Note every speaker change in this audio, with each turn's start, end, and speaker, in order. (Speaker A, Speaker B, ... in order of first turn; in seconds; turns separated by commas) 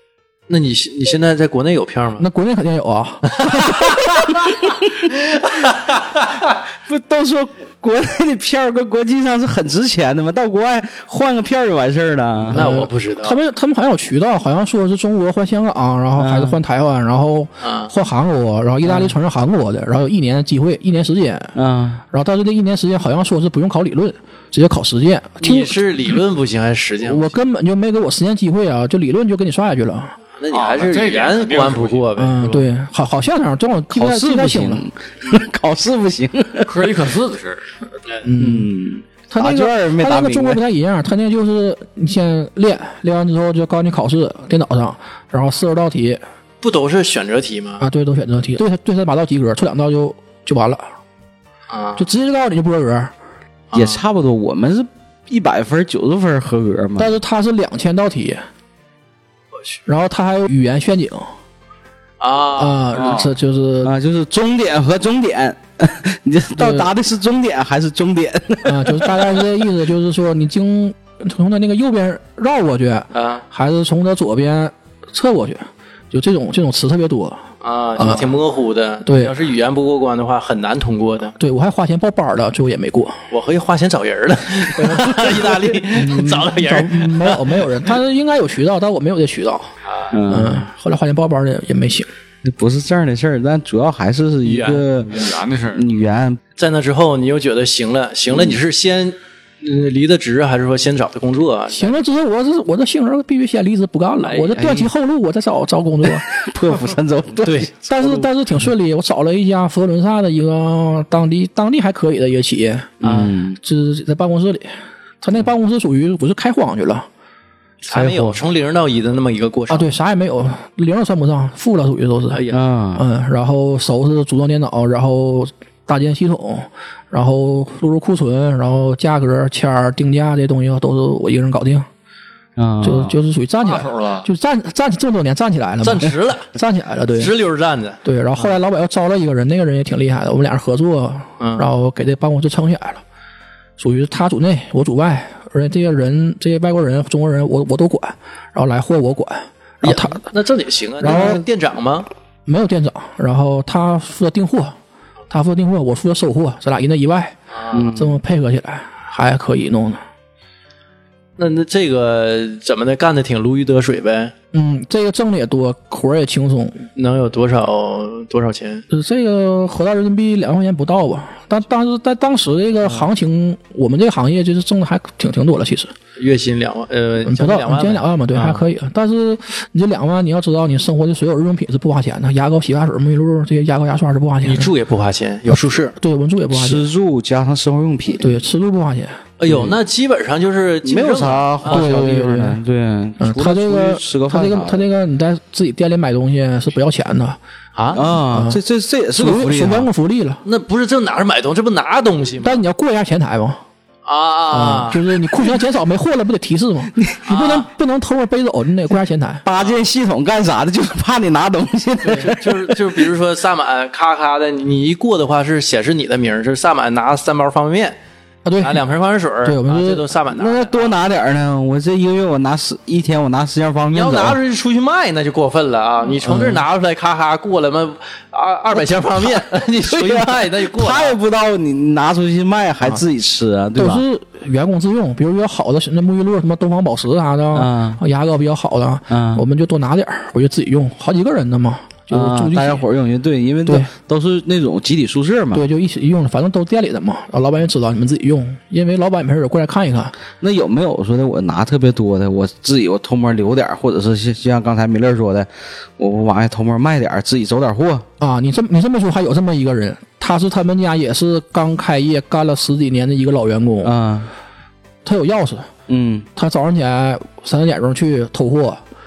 Speaker A: 0.5-2.3, Speaker B: 2.2-4.0, Speaker A: 3.3-4.4, Speaker A: 5.5-6.2, Speaker C: 6.8-12.7, Speaker B: 12.4-21.5, Speaker A: 12.5-13.3, Speaker C: 16.2-16.6, Speaker A: 17.6-17.9, Speaker C: 21.5-22.0, Speaker B: 22.1-25.8, Speaker A: 25.4-27.4, Speaker B: 27.0-30.2, Speaker A: 30.4-32.6, Speaker D: 30.5-32.0, Speaker B: 32.2-34.9, Speaker C: 33.9-36.9, Speaker D: 36.6-37.7, Speaker B: 38.2-38.7, Speaker C: 38.4-40.6, Speaker B: 39.3-46.2, Speaker A: 46.6-47.8, Speaker B: 47.8-50.9, Speaker A: 51.7-52.1, Speaker B: 52.0-53.1, Speaker A: 53.7-54.0, Speaker C: 53.7-57.1, Speaker B: 57.0-58.4, Speaker B: 59.9-61.3, Speaker A: 62.2-62.8, Speaker B: 62.5-63.9, Speaker D: 63.0-63.3, Speaker C: 63.8-69.6, Speaker B: 66.5-66.9, Speaker B: 68.6-78.2, Speaker A: 73.1-73.4, Speaker A: 77.6-81.3, Speaker B: 79.0-79.3, Speaker B: 81.4-83.2, Speaker A: 83.3-87.9, Speaker B: 84.8-89.7, Speaker A: 89.8-90.2, Speaker C: 90.1-90.7, Speaker B: 90.3-92.1, Speaker C: 92.4-96.4, Speaker A: 94.4-94.8, Speaker D: 94.7-95.9, Speaker A: 96.6-102.0, Speaker C: 98.3-98.6, Speaker B: 101.7-106.3, Speaker A: 104.2-104.5, Speaker C: 104.5-104.9, Speaker C: 106.3-107.7, Speaker A: 107.4-108.3, Speaker B: 107.8-117.1, Speaker C: 113.0-113.6, Speaker A: 113.0-113.3, Speaker A: 117.8-119.9, Speaker B: 117.9-118.4, Speaker B: 119.7-122.4, Speaker A: 122.3-122.6, Speaker C: 122.5-123.0, Speaker B: 122.9-131.9, Speaker C: 132.6-133.1, Speaker B: 132.8-137.3, Speaker D: 133.6-134.3, Speaker A: 135.8-136.5, Speaker A: 137.1-138.5, Speaker B: 138.0-143.0, Speaker A: 141.4-141.7, Speaker B: 143.8-150.2, Speaker A: 149.8-152.1, Speaker B: 151.0-151.4, Speaker C: 151.1-151.3, Speaker B: 152.4-154.8, Speaker B: 155.3-157.4, Speaker A: 157.5-157.9, Speaker C: 157.7-158.2, Speaker B: 157.9-160.0, Speaker A: 161.4-164.3, Speaker B: 164.5-166.9, Speaker A: 166.9-168.8, Speaker B: 168.9-175.9, Speaker A: 176.2-178.6, Speaker B: 177.2-184.7, Speaker A: 184.4-185.9, Speaker B: 185.9-186.9, Speaker C: 186.5-188.3, Speaker B: 188.2-189.2, Speaker A: 189.4-192.1, Speaker C: 189.4-189.7, Speaker C: 190.8-194.8, Speaker B: 191.7-192.6, Speaker B: 193.2-197.4, Speaker A: 197.7-198.0, Speaker C: 197.9-199.9, Speaker B: 198.0-198.6, Speaker B: 199.1-200.4, Speaker A: 200.4-202.6, Speaker B: 202.4-203.6, Speaker A: 204.0-205.0, Speaker B: 204.5-209.4, Speaker A: 207.2-207.7, Speaker C: 209.4-213.0, Speaker A: 212.0-218.0, Speaker B: 218.4-218.8, Speaker A: 218.6-220.9, Speaker B: 219.4-220.1, Speaker C: 220.3-224.4, Speaker A: 223.9-231.2, Speaker B: 226.2-226.6, Speaker C: 229.9-234.0, Speaker B: 233.7-242.8, Speaker C: 237.5-238.0, Speaker C: 239.1-239.4, Speaker C: 242.1-245.6, Speaker B: 243.7-243.9, Speaker B: 245.5-250.2, Speaker C: 250.4-258.1, Speaker B: 258.2-263.9, Speaker C: 263.8-264.3, Speaker B: 265.0-265.7, Speaker C: 265.9-266.3, Speaker B: 266.4-268.8